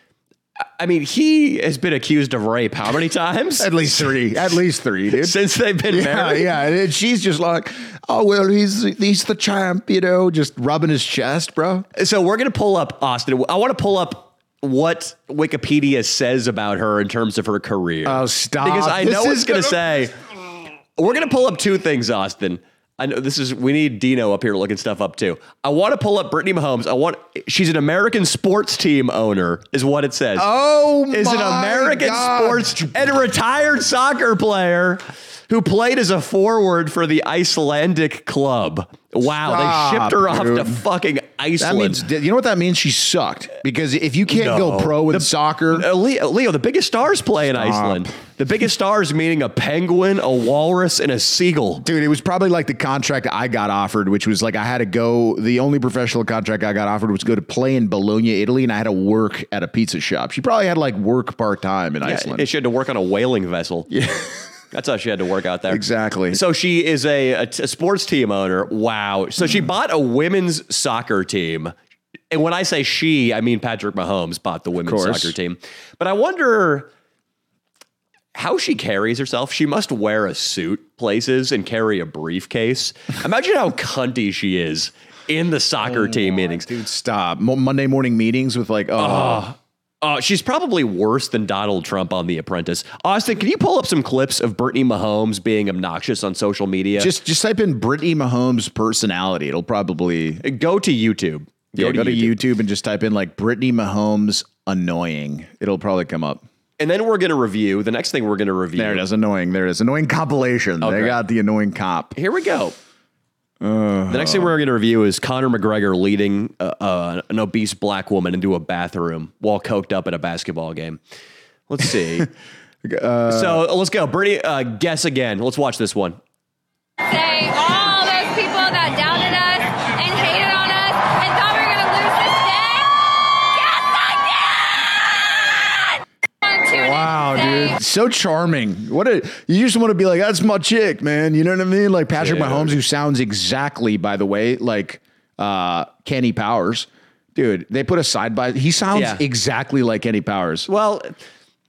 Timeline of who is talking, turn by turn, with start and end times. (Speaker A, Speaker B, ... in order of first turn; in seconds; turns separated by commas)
Speaker A: 0.8-3.7, Speaker B: 3.6-5.4, Speaker A: 5.1-6.5, Speaker B: 5.9-11.9, Speaker A: 12.0-20.1, Speaker B: 18.1-20.0, Speaker A: 21.0-30.5, Speaker B: 30.4-32.9, Speaker A: 31.1-42.0, Speaker B: 39.2-40.8, Speaker B: 41.6-45.9, Speaker A: 44.3-51.9, Speaker B: 47.5-48.1, Speaker B: 51.8-62.5, Speaker A: 62.0-63.9, Speaker B: 63.9-64.3, Speaker A: 64.7-71.7, Speaker B: 65.7-66.4, Speaker B: 69.4-69.7, Speaker A: 72.3-76.9, Speaker B: 74.8-75.3, Speaker A: 78.3-86.7, Speaker B: 85.8-89.5, Speaker A: 89.0-97.2, Speaker B: 97.0-100.4, Speaker A: 100.4-102.4, Speaker B: 101.7-106.4, Speaker A: 106.8-109.0, Speaker B: 108.8-112.2, Speaker A: 110.8-111.2, Speaker A: 112.2-112.8, Speaker B: 113.6-114.6, Speaker A: 114.1-121.0, Speaker A: 121.7-122.3, Speaker B: 121.9-122.3, Speaker B: 122.8-123.7, Speaker A: 123.3-126.2, Speaker C: 127.0-133.0, Speaker C: 133.5-135.0, Speaker C: 136.4-137.8, Speaker B: 136.7-150.7, Speaker A: 142.2-142.8, Speaker A: 148.9-149.2, Speaker A: 150.7-151.2